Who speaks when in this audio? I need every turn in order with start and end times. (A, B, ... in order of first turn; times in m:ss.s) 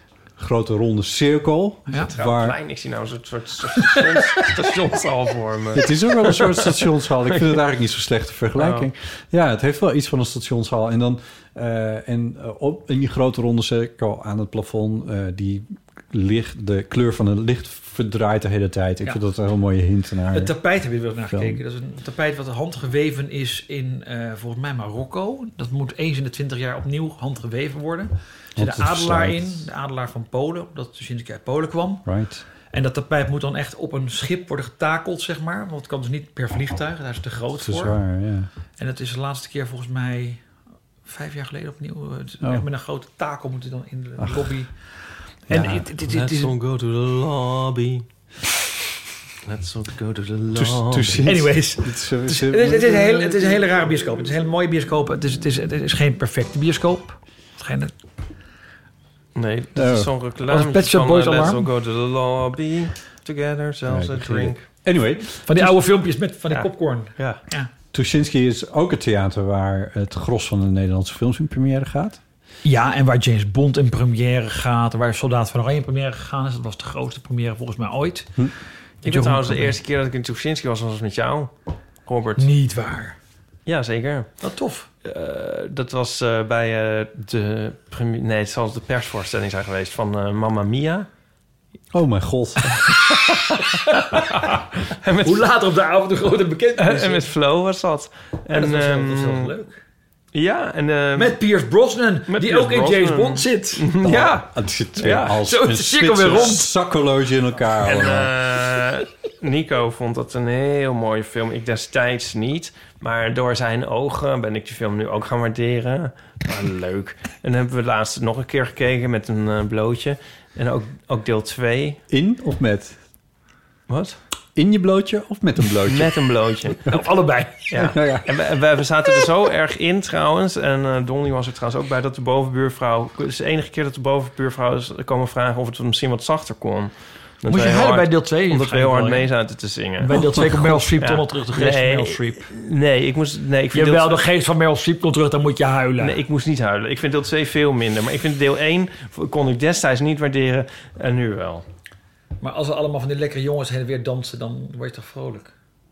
0:00.4-0:02.6 A
0:02.1-0:06.9 B
0:05.7-0:20.5 A
0:08.6-0:08.9 B
0:20.3-0:32.1 C
0:21.3-0:21.6 A
0:28.6-0:29.6 A
0:32.0-0:32.4 A
0:32.7-0:38.0 C
0:37.6-0:38.5 A
0:38.8-0:40.4 C
0:41.0-0:44.7 C
0:44.2-0:44.5 A
0:45.5-0:45.9 A
0:45.5-0:46.5 C
0:46.1-0:48.0 B
0:49.4-0:51.3 B
0:50.5-0:53.6 A
0:51.2-0:57.9 C
0:59.4-1:04.6 B
0:59.7-1:00.1 A
1:00.5-1:01.7 C
1:03.9-1:05.6 A
1:05.4-1:07.7 C
1:06.5-1:07.4 B
1:07.9-1:12.2 A
1:12.6-1:18.4 C
1:19.0-1:21.5 B
1:19.0-1:19.7 C
1:22.0-1:22.4 B
1:22.4-1:23.1 C
1:23.6-1:24.3 B
1:24.4-1:24.9 C
1:25.0-1:31.1 B
1:31.9-1:32.8 A
1:32.9-1:35.5 B
1:35.2-1:37.3 C
1:36.8-1:39.5 B
1:38.5-1:39.7 C
1:40.3-1:41.4 B
1:41.1-1:43.8 C
1:42.3-1:45.4 B
1:44.0-1:48.3 A
1:45.4-1:46.7 C
1:47.8-2:02.0 B
2:02.1-2:03.0 A
2:03.9-2:04.2 B
2:04.6-2:06.1 A
2:05.8-2:06.9 B
2:06.8-2:07.7 C
2:07.7-2:24.2 B
2:07.8-2:08.3 A
2:17.5-2:19.3 C
2:20.0-2:22.4 C
2:23.7-2:26.2 C
2:26.0-2:31.6 B
2:32.4-2:35.5 C